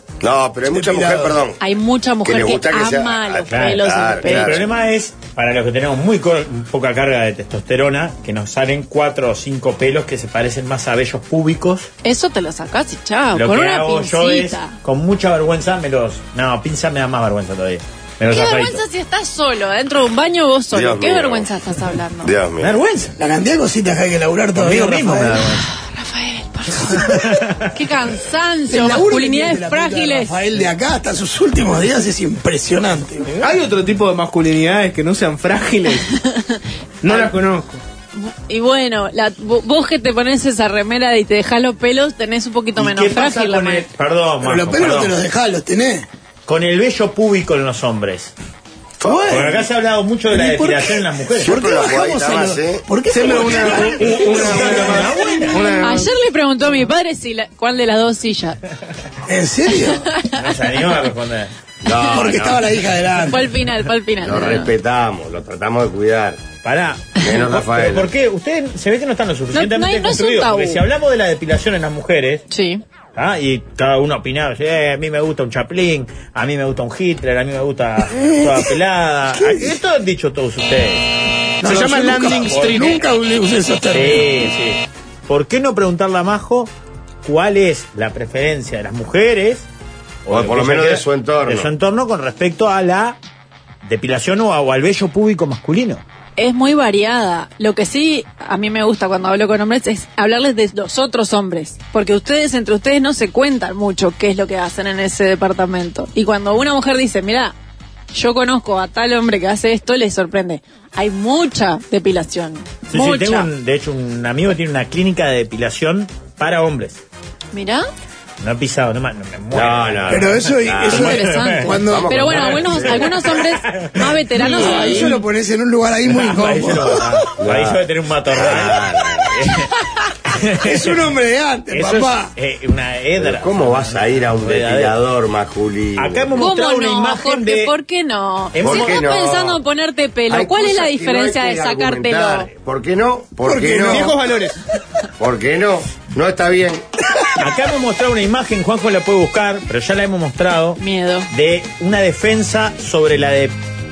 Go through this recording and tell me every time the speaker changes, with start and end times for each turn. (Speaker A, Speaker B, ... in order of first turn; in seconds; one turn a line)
Speaker A: 0.2-1.6
Speaker B: 0.7-1.4
Speaker C: 1.6-4.6
Speaker A: 2.2-4.6
Speaker D: 3.5-11.9
Speaker C: 12.0-14.7
Speaker D: 13.3-18.8
Speaker C: 18.3-22.3
Speaker A: 20.7-21.5
Speaker A: 22.2-22.7
Speaker D: 22.6-23.1
Speaker B: 23.2-25.5
Speaker D: 24.5-25.7
Speaker C: 25.7-30.4
Speaker D: 27.1-27.7
Speaker B: 28.7-33.3
Speaker E: 33.3-36.0
Speaker C: 36.1-37.3
Speaker E: 37.0-37.8
Speaker C: 38.1-43.9
Speaker D: 42.8-45.2
Speaker B: 44.4-46.1
Speaker D: 46.5-48.3
Speaker A: 49.0-49.3
Speaker B: 49.0-49.6
Speaker D: 49.3-51.5
Speaker B: 50.3-55.2
Speaker A: 51.4-52.8
Speaker E: 53.1-56.1
Speaker D: 54.3-55.8
Speaker C: 55.8-58.6
Speaker B: 59.2-60.1
Speaker C: 60.1-60.8
Speaker D: 60.4-61.5
Speaker A: 61.8-62.7
Speaker C: 61.9-62.1
Speaker B: 62.1-63.5
Speaker C: 63.2-64.7
Speaker A: 64.2-66.4
Speaker D: 66.6-72.4
Speaker A: 67.2-68.1
Speaker C: 69.5-70.8
Speaker C: 72.5-72.8
Speaker D: 73.1-81.1
Speaker B: 78.1-78.7
Speaker B: 79.3-79.8
Speaker B: 81.6-84.5
Speaker E: 81.6-83.0
Speaker D: 83.9-86.7
Speaker D: 87.2-89.7
Speaker D: 90.2-93.2
Speaker A: 90.3-91.7
Speaker D: 93.8-96.0
Speaker C: 96.4-107.5
Speaker C: 108.1-113.5
Speaker D: 112.9-117.0
Speaker C: 117.5-117.9
Speaker D: 118.4-125.2
Speaker A: 119.5-121.2
Speaker B: 120.1-122.3
Speaker C: 120.9-125.1
Speaker A: 121.8-123.2
Speaker B: 124.3-127.2
Speaker D: 126.1-129.7
Speaker A: 127.4-129.3
Speaker D: 130.3-131.0
Speaker B: 130.6-132.3
Speaker D: 131.7-134.9
Speaker A: 133.2-136.4
Speaker D: 135.9-137.7
Speaker C: 136.4-142.5
Speaker D: 138.5-139.1
Speaker A: 138.6-139.6
Speaker A: 140.3-144.1
Speaker B: 143.4-144.2
Speaker E: 143.8-144.5
Speaker A: 145.2-146.8
Speaker D: 147.3-150.8
Speaker C: 150.8-151.3
Speaker D: 151.3-153.5